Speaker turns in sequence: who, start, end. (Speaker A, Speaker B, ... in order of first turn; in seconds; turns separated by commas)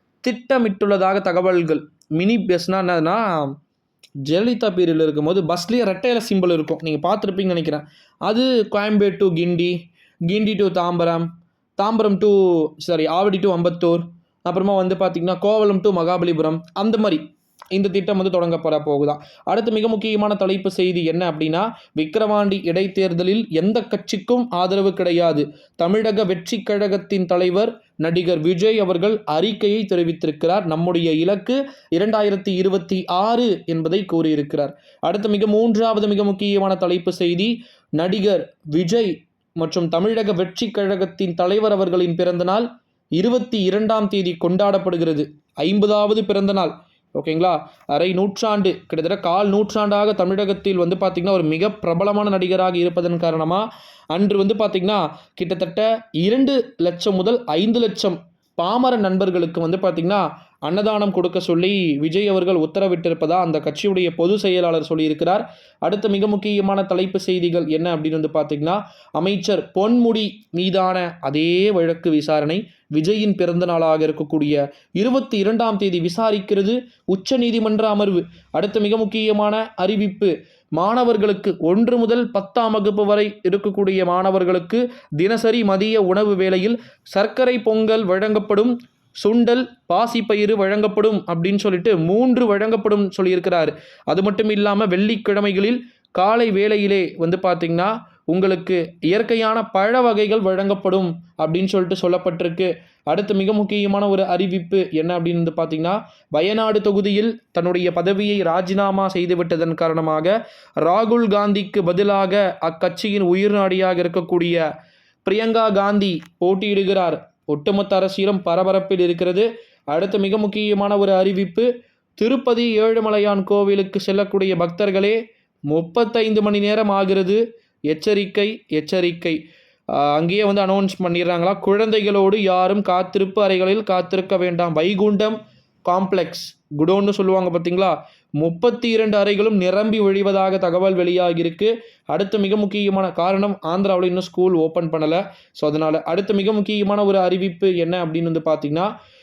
Speaker A: 0.2-3.5, Speaker A: 4.2-9.8, Speaker A: 10.3-17.2, Speaker A: 17.7-42.7, Speaker A: 43.2-114.6, Speaker A: 115.2-125.2, Speaker A: 125.7-129.4, Speaker A: 129.9-148.9